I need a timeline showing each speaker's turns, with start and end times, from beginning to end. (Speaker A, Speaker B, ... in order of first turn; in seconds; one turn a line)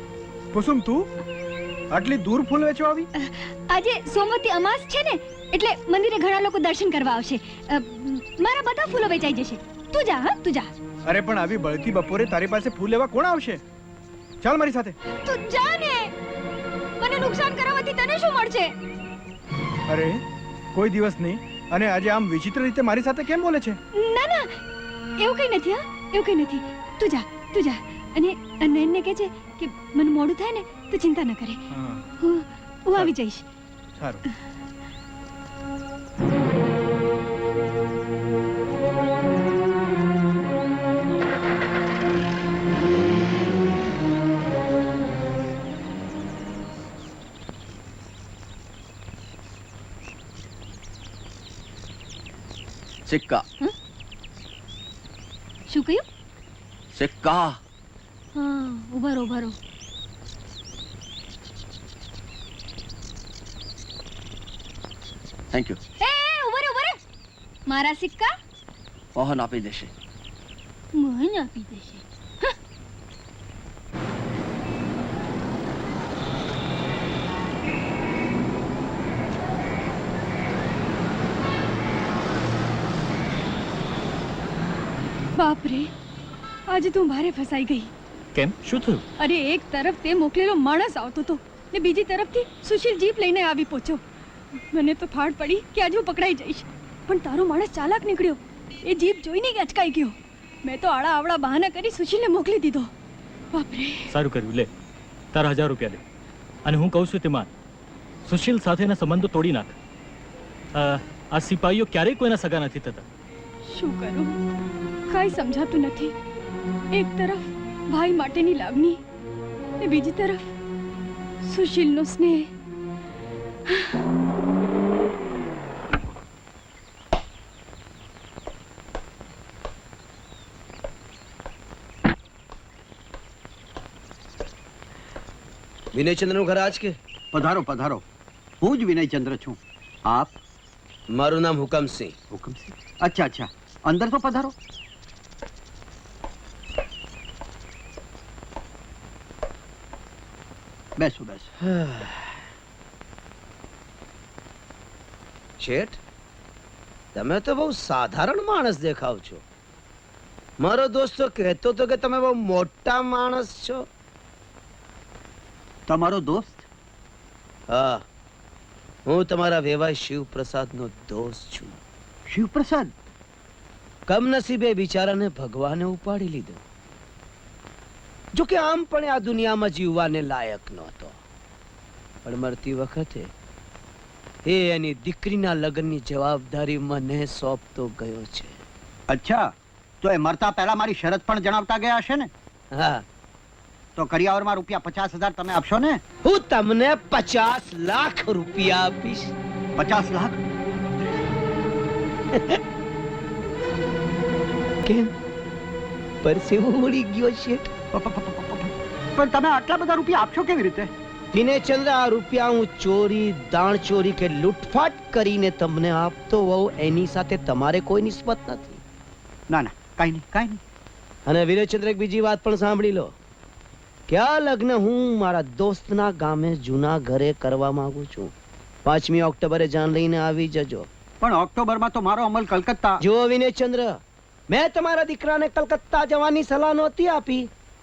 Speaker A: 0.5-1.1
Speaker A: 1.9-3.1
Speaker B: 3.2-10.7
Speaker A: 11.1-13.6
Speaker A: 14.4-14.9
Speaker B: 15.2-16.1
Speaker B: 17.0-18.7
Speaker A: 19.9-20.2
Speaker A: 20.7-23.8
Speaker B: 23.9-24.6
Speaker B: 25.2-31.6
Speaker A: 31.7-32.1
Speaker B: 32.2-33.4
Speaker A: 34.0-34.2
Speaker C: 53.1-53.4
Speaker B: 55.7-56.0
Speaker C: 56.9-57.6
Speaker B: 58.3-59.5
Speaker C: 65.5-65.8
Speaker B: 66.0-67.0
Speaker B: 67.7-68.3
Speaker C: 69.2-69.9
Speaker B: 70.9-72.5
Speaker B: 85.3-85.9
Speaker B: 86.7-87.9
Speaker D: 88.4-89.0
Speaker B: 89.2-94.0
Speaker B: 94.6-102.9
Speaker B: 103.5-104.1
Speaker D: 104.2-104.7
Speaker D: 105.3-106.0
Speaker D: 106.7-107.5
Speaker D: 108.2-109.7
Speaker D: 110.8-113.0
Speaker B: 113.7-114.4
Speaker B: 115.1-116.1
Speaker B: 116.9-119.0
Speaker B: 119.8-120.5
Speaker B: 121.4-122.5
Speaker E: 135.9-136.9
Speaker F: 137.3-138.0
Speaker F: 138.6-140.3
Speaker E: 141.1-142.1
Speaker F: 142.3-144.5
Speaker F: 151.0-151.5
Speaker E: 151.7-152.2
Speaker E: 155.6-156.0
Speaker E: 157.1-159.4
Speaker E: 160.6-163.8
Speaker F: 165.9-166.6
Speaker E: 167.7-168.0
Speaker E: 169.1-171.8
Speaker F: 172.3-172.9
Speaker E: 174.1-176.6
Speaker E: 178.3-181.2
Speaker E: 182.2-183.3
Speaker E: 184.4-188.6
Speaker F: 189.1-192.3
Speaker E: 192.7-193.0
Speaker F: 193.9-196.0
Speaker E: 196.2-199.3
Speaker F: 199.8-200.4
Speaker E: 206.2-207.7
Speaker F: 207.9-210.9
Speaker E: 211.3-218.8
Speaker F: 219.5-220.6
Speaker E: 221.2-223.1
Speaker E: 224.1-228.3
Speaker E: 228.8-230.9
Speaker F: 231.2-233.0
Speaker E: 233.0-234.0
Speaker E: 234.5-237.5